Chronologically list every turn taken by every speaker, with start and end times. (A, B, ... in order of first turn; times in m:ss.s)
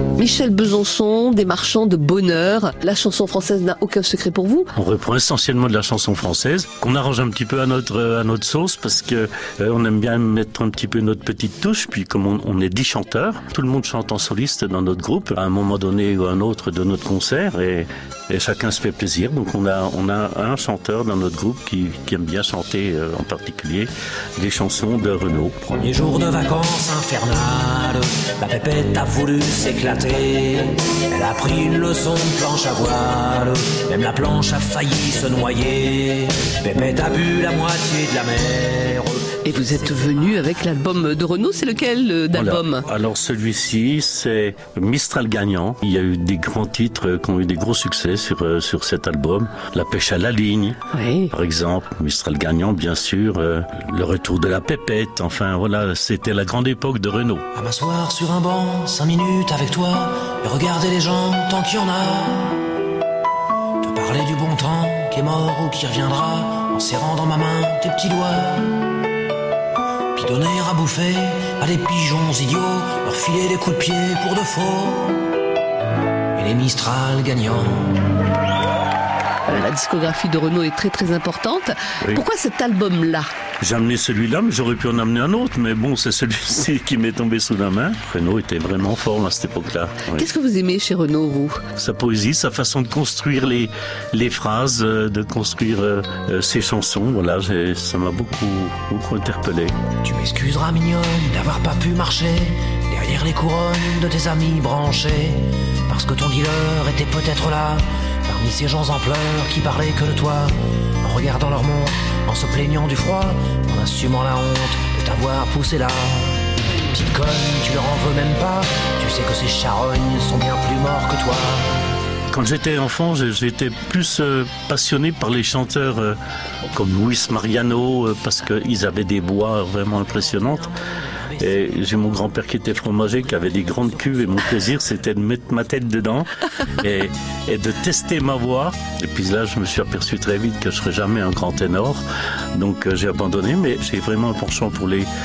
0:00.2-0:04.7 A
0:04.8-0:25.8 B
0:25.8-0:40.4 C
0:39.4-0:42.8 A
0:42.3-0:50.8 B
0:50.9-0:51.3 A
0:51.3-0:57.4 B
0:57.5-1:02.6 C
1:03.8-1:08.8 C
1:10.2-1:15.2 C
1:16.4-1:18.0 C
1:19.5-1:23.3 A
1:23.6-1:30.3 B
1:30.2-1:31.6 A
1:31.8-1:39.7 B
1:40.0-2:01.9 C
2:02.3-2:06.2 B
2:06.7-2:10.7 B
2:09.9-2:12.4 C
2:11.4-2:22.0 B
2:13.3-2:14.2 C
2:22.6-2:25.1 B